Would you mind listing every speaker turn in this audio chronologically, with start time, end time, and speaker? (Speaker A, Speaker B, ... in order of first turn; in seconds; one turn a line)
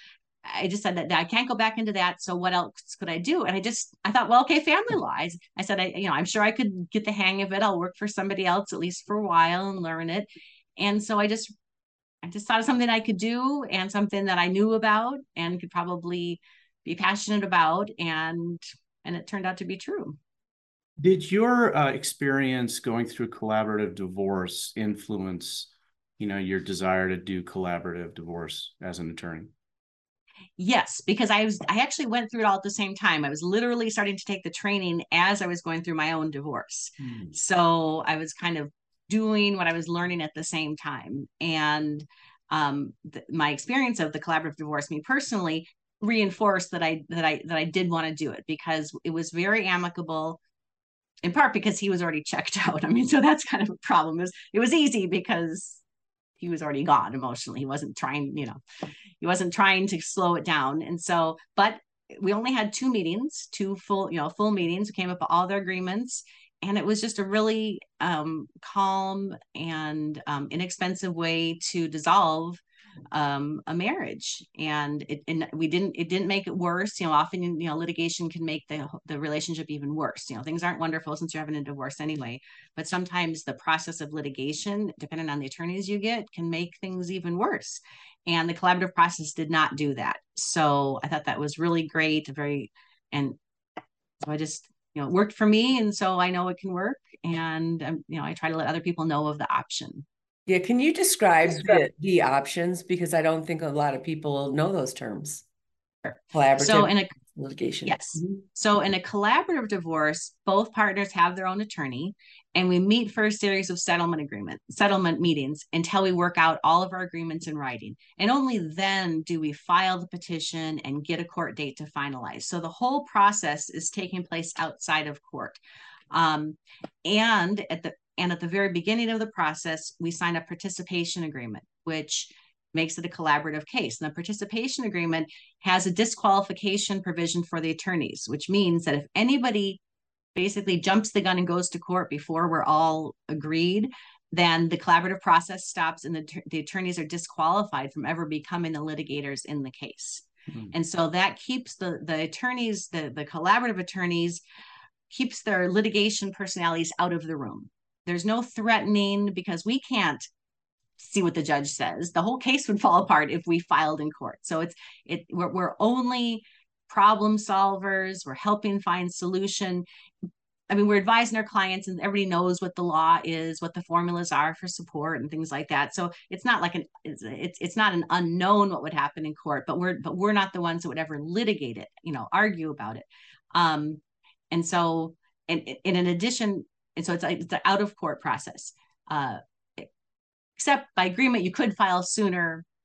Speaker A: 0.4-11.5
Speaker A: 12.2-20.2
Speaker B: 21.0-29.5
Speaker A: 30.6-50.4
Speaker B: 37.0-37.3
Speaker A: 51.2-55.8
Speaker A: 56.4-58.6
Speaker A: 59.2-93.4
Speaker A: 94.2-100.0
Speaker C: 100.5-105.4
Speaker A: 106.0-107.1
Speaker C: 106.3-108.4
Speaker A: 107.8-139.8
Speaker A: 140.3-154.4
Speaker A: 155.1-160.3
Speaker A: 161.0-169.8
Speaker A: 170.7-189.9
Speaker A: 190.6-192.6